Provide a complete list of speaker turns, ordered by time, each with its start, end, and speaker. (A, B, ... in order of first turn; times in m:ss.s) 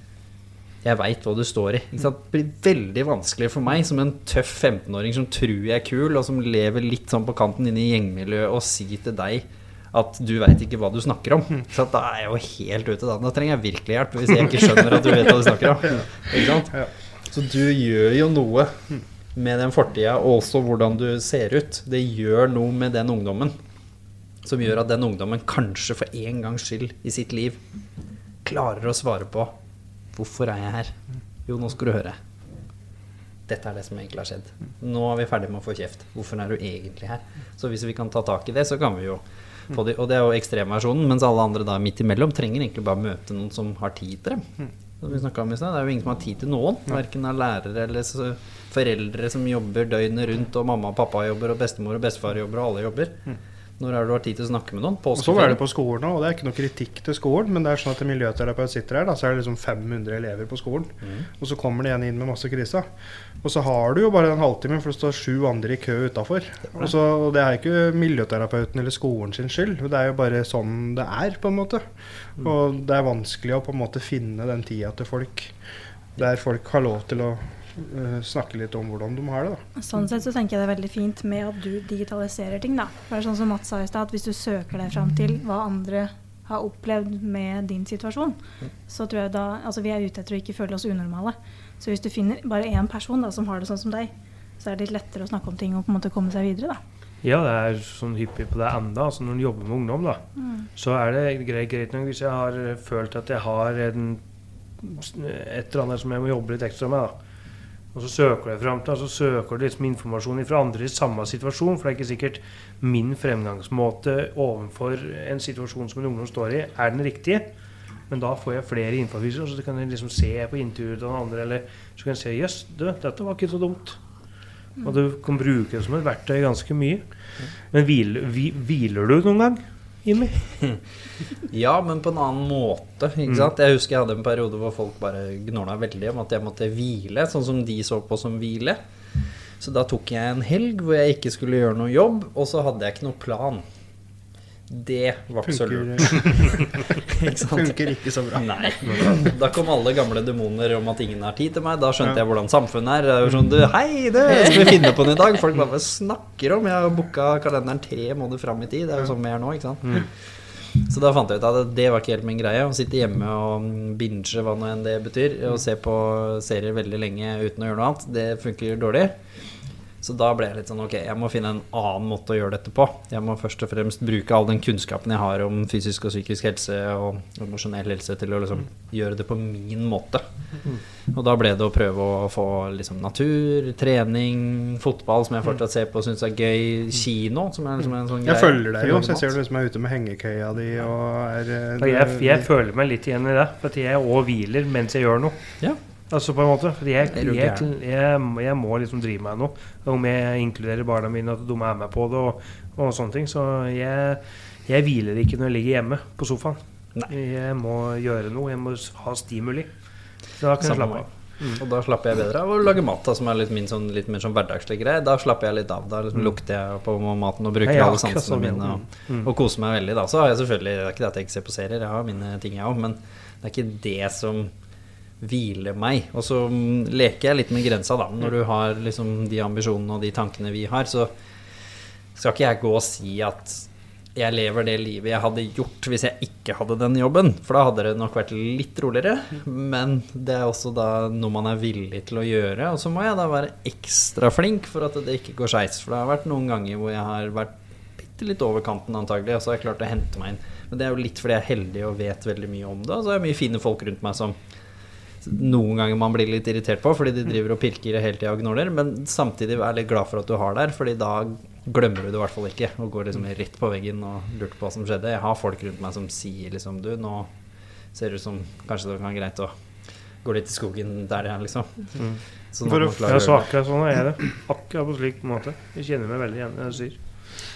0:00.8-0:23.6 A
0:24.4-0:27.6 A
0:28.4-0:29.5 A
0:30.2-0:30.9 A
0:31.5-0:32.2 A
0:33.5-0:44.5 A
0:45.0-0:53.2 A
0:53.8-0:55.6 A
0:55.2-1:02.9 B
1:01.0-1:01.3 A
1:03.4-1:11.8 B
1:12.4-1:15.6 B
1:16.2-1:19.6 B
1:19.8-1:28.4 C
1:28.9-1:36.8 C
1:37.2-1:40.2 D
1:40.4-1:40.6 C
1:40.8-1:44.2 D
1:44.8-1:47.1 D
1:47.9-1:57.5 D
1:58.1-2:04.0 D
2:04.8-2:07.1 D
2:07.7-2:10.6 D
2:11.5-2:18.8 A
2:19.6-2:23.6 A
2:24.7-2:27.8 A
2:25.5-2:28.4 B
2:28.3-2:49.2 A
2:50.0-3:00.2 A
3:01.1-3:09.2 A
3:08.2-3:12.5 B
3:11.8-3:29.8 D
3:17.1-3:17.7 A
3:30.4-3:31.6 D
3:30.6-3:44.5 A
3:37.6-3:39.3 D
3:45.2-3:51.1 A
3:52.2-4:14.4 A
4:15.2-4:27.3 A
4:27.9-4:29.5 A
4:30.2-4:31.9 A
4:32.5-4:33.5 A
4:32.6-4:33.4 B
4:33.0-4:37.3 D